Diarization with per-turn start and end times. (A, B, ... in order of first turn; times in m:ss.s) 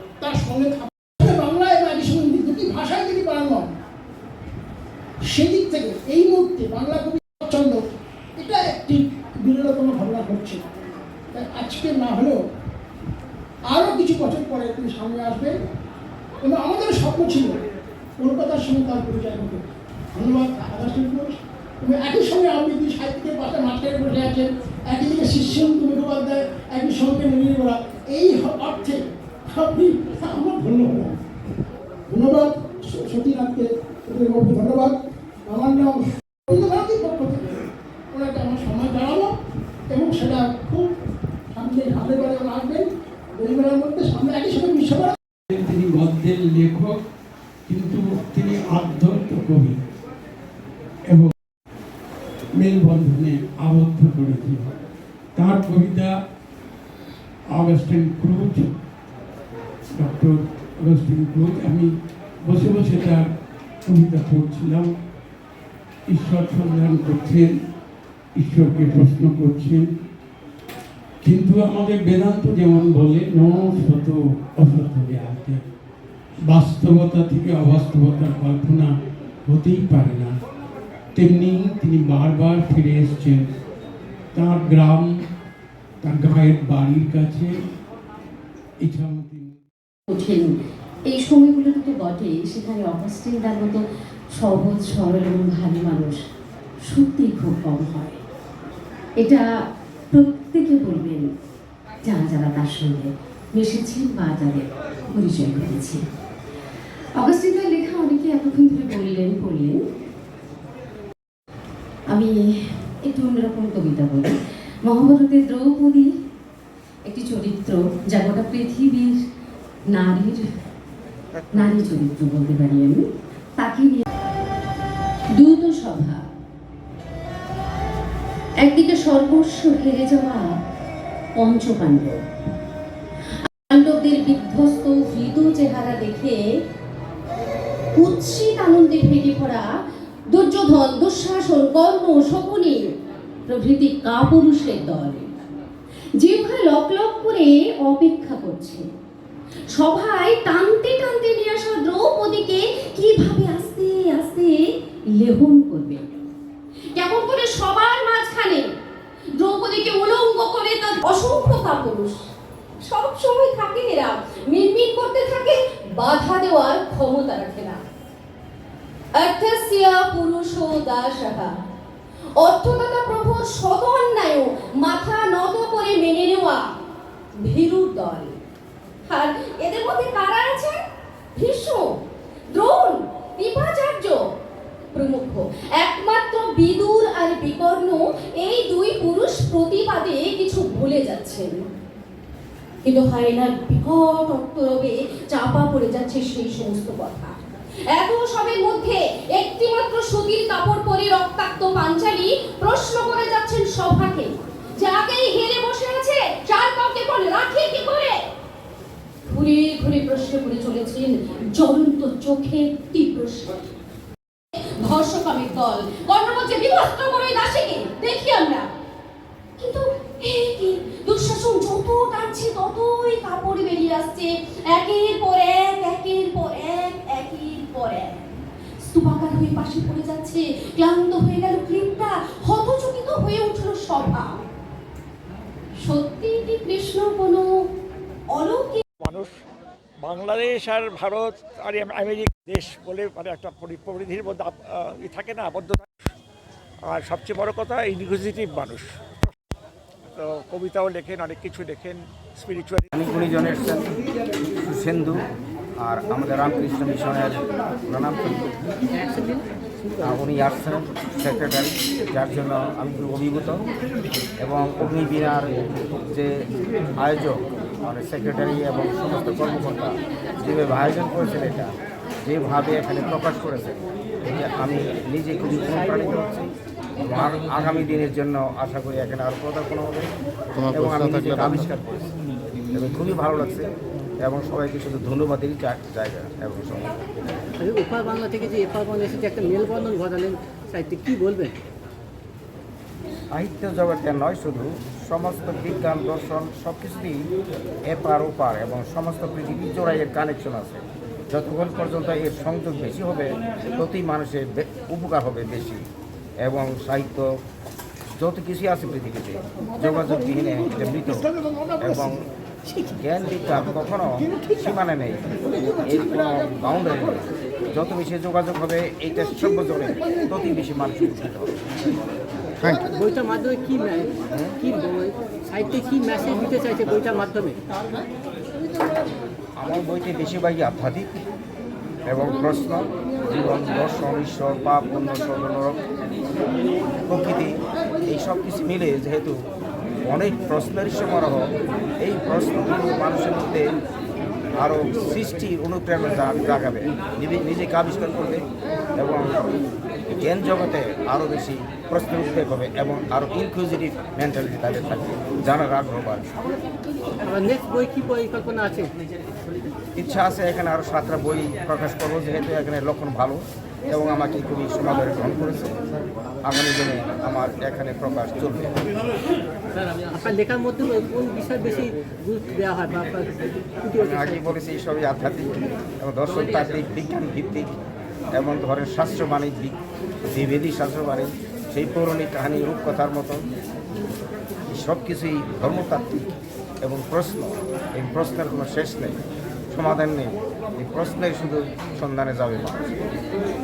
0:00.2-0:03.7 A
0:05.2-0:07.8 A
0:08.4-0:10.6 A
0:11.3-0:12.4 A
0:13.7-0:15.6 A
0:16.4-0:17.6 A
0:18.2-0:19.6 A
0:20.1-0:31.2 A
0:32.1-0:35.0 A
0:35.5-0:37.5 A
0:38.1-0:39.3 A
0:39.9-0:40.9 A
0:41.5-0:45.2 A
0:45.5-0:47.0 B
0:47.7-0:49.8 B
0:51.1-0:51.3 B
0:52.6-0:54.7 B
0:55.4-0:56.1 B
0:57.5-0:58.7 B
1:00.0-1:01.9 B
1:02.5-1:03.3 B
1:03.8-1:04.9 B
1:06.1-1:07.5 B
1:08.4-1:09.9 B
1:11.2-1:15.6 B
1:16.5-1:18.9 B
1:19.5-1:20.3 B
1:21.2-1:23.5 B
1:24.3-1:25.1 B
1:26.0-1:27.5 B
1:28.8-1:29.6 B
1:30.1-1:30.5 C
1:31.1-1:33.8 C
1:34.4-1:36.2 C
1:36.9-1:38.2 C
1:40.1-1:41.3 C
1:42.1-1:46.0 C
1:47.2-1:49.8 C
1:53.0-1:56.1 C
1:57.1-1:59.2 C
1:59.9-2:00.4 C
2:01.5-2:03.0 C
2:03.6-2:04.0 C
2:05.3-2:06.2 C
2:08.6-2:10.5 C
2:11.4-2:12.2 C
2:13.7-2:16.4 C
2:18.0-2:19.7 C
2:20.3-2:22.8 C
2:23.5-2:25.3 C
2:26.2-2:28.8 C
2:29.8-2:34.6 C
2:35.1-2:36.2 C
2:37.0-2:38.7 C
2:39.4-2:42.2 C
2:42.8-2:47.8 C
2:49.2-2:51.5 C
2:52.4-2:56.6 C
2:57.4-2:58.3 C
2:59.1-3:00.8 C
3:01.4-3:01.9 C
3:02.5-3:04.2 C
3:04.9-3:11.6 C
3:12.8-3:17.4 C
3:17.9-3:28.2 C
3:29.3-3:33.7 C
3:34.8-3:38.7 C
3:39.6-3:48.2 C
3:48.8-3:54.4 C
3:55.8-3:57.5 C
3:58.3-3:58.8 C
3:59.0-3:59.4 D
4:00.0-4:06.1 D
4:06.8-4:09.3 D
4:10.1-4:12.9 D
4:12.9-4:13.9 E
4:14.6-4:15.2 E
4:15.8-4:18.5 E
4:19.0-4:19.4 F
4:20.0-4:23.7 E
4:24.4-4:26.5 E
4:27.0-4:31.7 E
4:32.2-4:40.1 E
4:40.6-4:42.1 E
4:42.7-4:47.0 E
4:47.6-4:51.6 F
4:53.3-4:57.2 E
4:57.9-5:05.8 E
5:06.4-5:07.3 E
5:08.2-5:11.3 E
5:09.7-5:12.1 A
5:11.8-5:12.2 E
5:12.9-5:15.3 E
5:15.4-5:17.1 A
5:15.9-5:21.6 E
5:19.3-5:20.4 A
5:22.6-5:23.2 A
5:22.8-5:27.6 F
5:24.3-5:24.6 E
5:27.7-5:29.1 A
5:29.6-5:31.2 E
5:32.1-5:35.8 E
5:37.0-5:39.4 E
5:40.1-5:43.6 E
5:44.6-5:48.4 E
5:49.0-5:49.5 E
5:50.1-5:56.4 E
5:57.2-5:58.9 F
6:00.0-6:05.8 E
6:06.4-6:08.9 E
6:09.7-6:13.3 F
6:13.8-6:14.5 F
6:14.0-6:17.7 E
6:18.4-6:23.4 E
6:24.7-6:29.2 E
6:29.7-6:33.0 E